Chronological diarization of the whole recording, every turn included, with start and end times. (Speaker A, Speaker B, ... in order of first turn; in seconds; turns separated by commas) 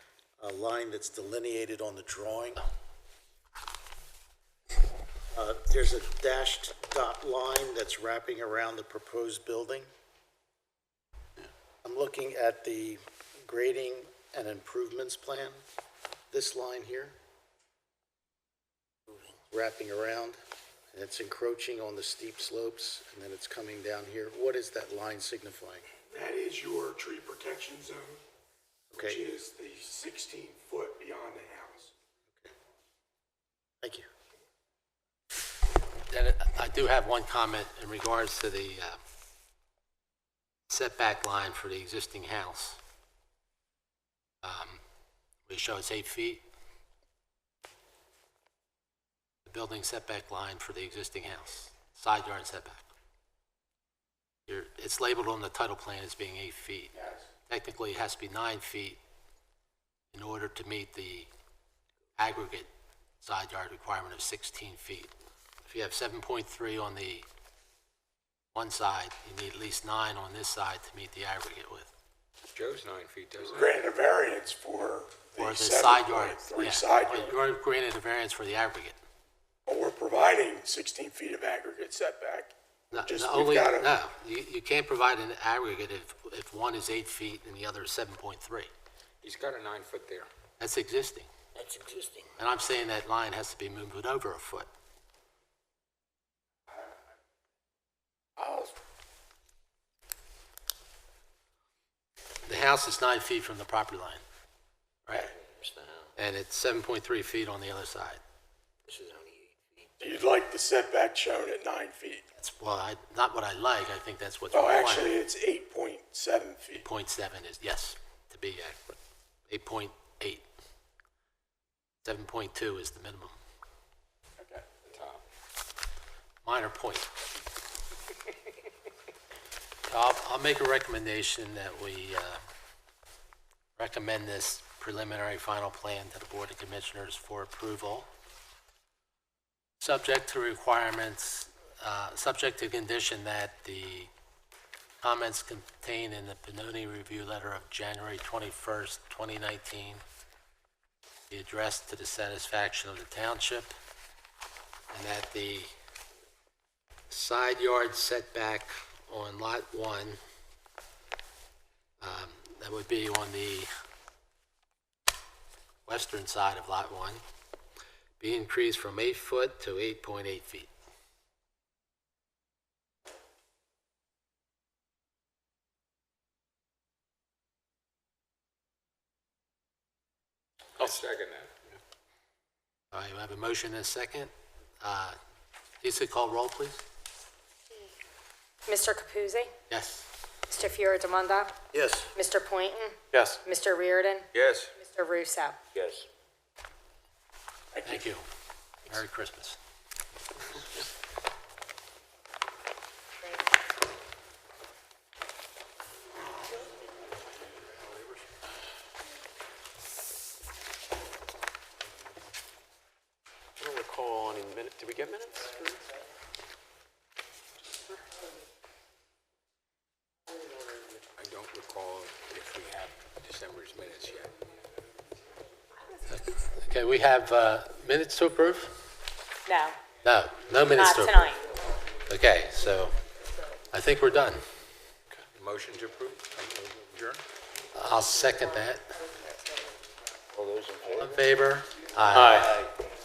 Speaker A: 0.4-2.7, Speaker A: 5.3-9.9, Speaker A: 11.8-15.6, Speaker A: 16.3-17.2, Speaker A: 19.5-20.4, Speaker A: 20.9-25.9, Speaker B: 26.1-28.2, Speaker A: 28.9-29.2, Speaker B: 29.0-31.9, Speaker A: 33.8-34.1, Speaker C: 36.1-39.0, Speaker C: 40.7-42.8, Speaker C: 44.4-44.8, Speaker C: 45.5-46.4, Speaker C: 49.5-52.9, Speaker C: 54.5-57.0, Speaker C: 57.5-59.0, Speaker C: 60.1-61.3, Speaker C: 62.2-62.7, Speaker C: 63.2-65.1, Speaker C: 65.7-67.3, Speaker C: 68.5-71.9, Speaker D: 72.5-73.8, Speaker B: 73.4-77.4, Speaker C: 75.4-79.0, Speaker B: 79.7-83.9, Speaker C: 82.9-88.7, Speaker D: 89.2-90.3, Speaker C: 90.6-91.3, Speaker E: 91.6-92.4, Speaker C: 92.4-94.7, Speaker B: 98.4-98.7, Speaker C: 102.5-104.2, Speaker E: 105.3-106.1, Speaker C: 106.2-108.2, Speaker E: 108.9-109.9, Speaker B: 110.0-112.2, Speaker C: 112.4-115.2, Speaker B: 114.5-116.9, Speaker C: 116.8-119.0, Speaker C: 119.5-120.4, Speaker C: 122.0-123.3, Speaker B: 124.4-124.8, Speaker D: 124.8-125.2, Speaker C: 126.4-127.1, Speaker C: 129.9-132.4, Speaker C: 133.8-138.1, Speaker C: 139.8-144.1, Speaker C: 145.0-150.0, Speaker C: 151.3-153.7, Speaker C: 154.9-155.7, Speaker C: 157.1-160.2, Speaker C: 162.0-163.7, Speaker C: 165.9-167.2, Speaker C: 168.2-170.7, Speaker D: 180.8-181.5, Speaker C: 182.9-185.2, Speaker C: 185.8-186.8, Speaker F: 188.7-189.5, Speaker C: 189.7-190.1, Speaker F: 190.5-191.5, Speaker F: 192.1-195.6, Speaker G: 193.1-193.4, Speaker D: 194.3-194.7, Speaker E: 195.8-196.1, Speaker B: 197.8-198.0, Speaker C: 197.8-198.2, Speaker C: 198.9-199.6, Speaker G: 213.6-215.9, Speaker D: 221.2-224.3, Speaker C: 226.1-228.7, Speaker F: 229.5-229.8, Speaker C: 230.0-231.2, Speaker F: 230.7-231.4, Speaker C: 232.1-233.0, Speaker C: 233.7-234.4, Speaker D: 235.4-236.4, Speaker C: 237.7-238.9, Speaker E: 240.3-241.1, Speaker C: 241.0-242.5, Speaker G: 242.1-242.4, Speaker E: 242.2-242.7